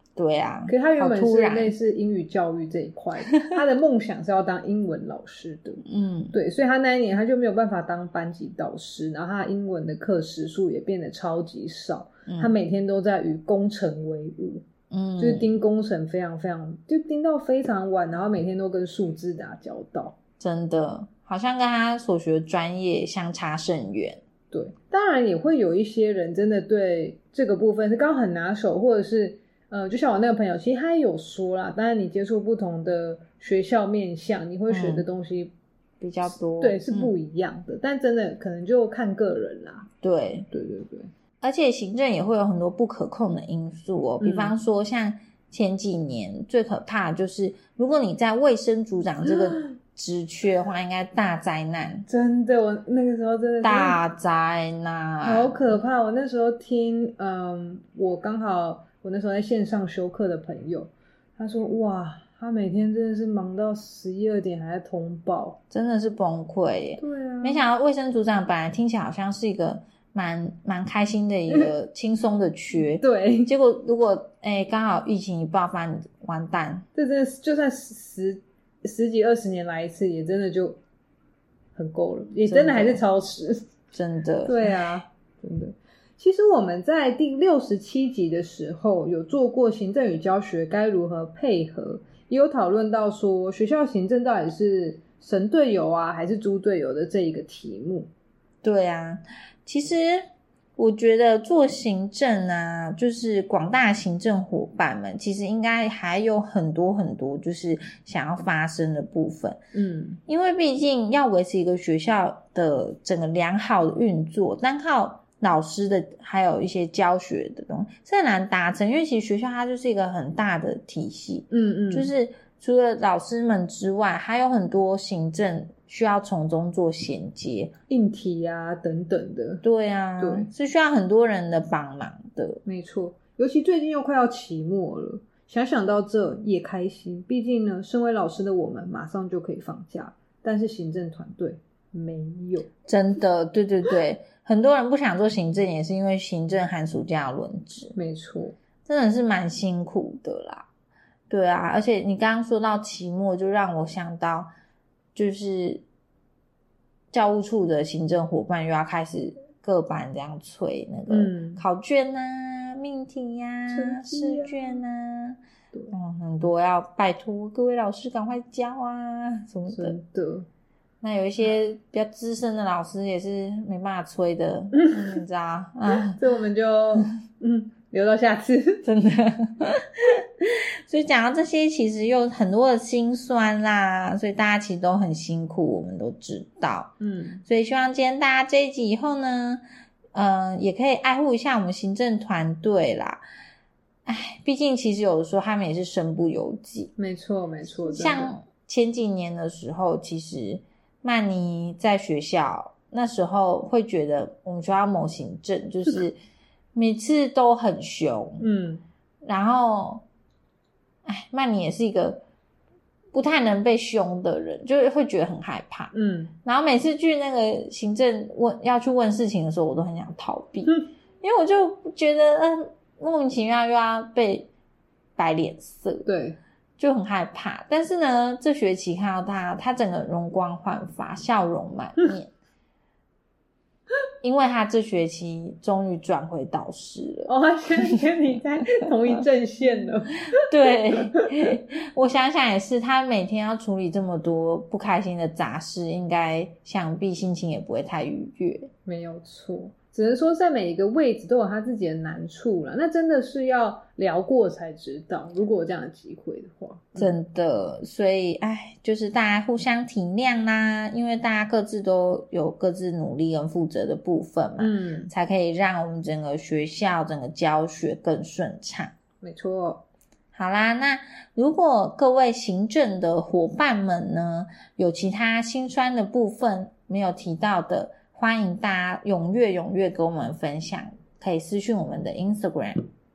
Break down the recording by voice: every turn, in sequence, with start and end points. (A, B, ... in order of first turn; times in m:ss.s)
0:00.2-0:01.7 A
0:00.7-0:14.6 B
0:05.8-0:06.4 A
0:12.3-0:12.5 A
0:14.9-0:15.5 A
0:15.2-0:20.2 B
0:20.4-0:24.2 A
0:24.5-0:35.5 B
0:34.7-0:35.1 A
0:36.0-0:37.1 A
0:36.3-0:39.9 B
0:40.0-0:40.5 A
0:40.5-0:41.1 B
0:41.4-0:52.1 A
0:44.2-0:44.5 B
0:52.1-0:54.0 B
0:53.6-0:55.6 A
0:55.2-1:05.6 B
1:05.7-1:16.8 A
1:07.0-1:07.6 B
1:13.0-1:13.5 B
1:17.0-1:20.8 B
1:21.8-1:23.6 B
1:22.5-1:23.0 A
1:23.9-1:24.8 A
1:24.4-1:38.1 B
1:38.6-1:49.6 A
1:49.7-1:50.2 B
1:50.3-2:07.7 A
2:01.5-2:02.1 B
2:07.9-2:09.6 B
2:09.6-2:12.6 A
2:10.2-2:10.5 B
2:12.6-2:22.7 B
2:22.9-2:28.0 A
2:28.0-2:28.6 B
2:28.9-2:30.7 A
2:31.3-2:34.5 A
2:35.2-2:35.8 A
2:37.1-2:45.4 A
2:41.1-2:41.6 B
2:43.7-2:44.8 B
2:45.9-2:50.0 A
2:49.7-2:50.5 B
2:51.0-2:56.2 A
2:56.0-2:58.9 B
2:58.8-3:06.9 A
3:07.0-3:07.4 B
3:07.5-3:09.6 A
3:10.2-3:13.2 A
3:14.1-3:16.9 A
3:17.0-3:18.4 B
3:17.7-3:26.2 A
3:26.8-3:28.5 A
3:28.4-3:28.8 B
3:29.2-3:30.0 A
3:31.1-3:32.2 A
3:33.1-3:35.9 A
3:35.9-3:36.3 B
3:36.4-3:44.5 A
3:45.2-3:46.1 A
3:46.0-3:46.4 B
3:46.8-3:52.3 A
3:54.2-3:58.0 A
3:57.3-4:00.3 B
4:00.4-4:08.7 A
4:08.8-4:17.2 B
4:17.0-4:29.0 A
4:24.6-4:25.1 B
4:29.2-4:29.8 B
4:30.3-4:42.8 A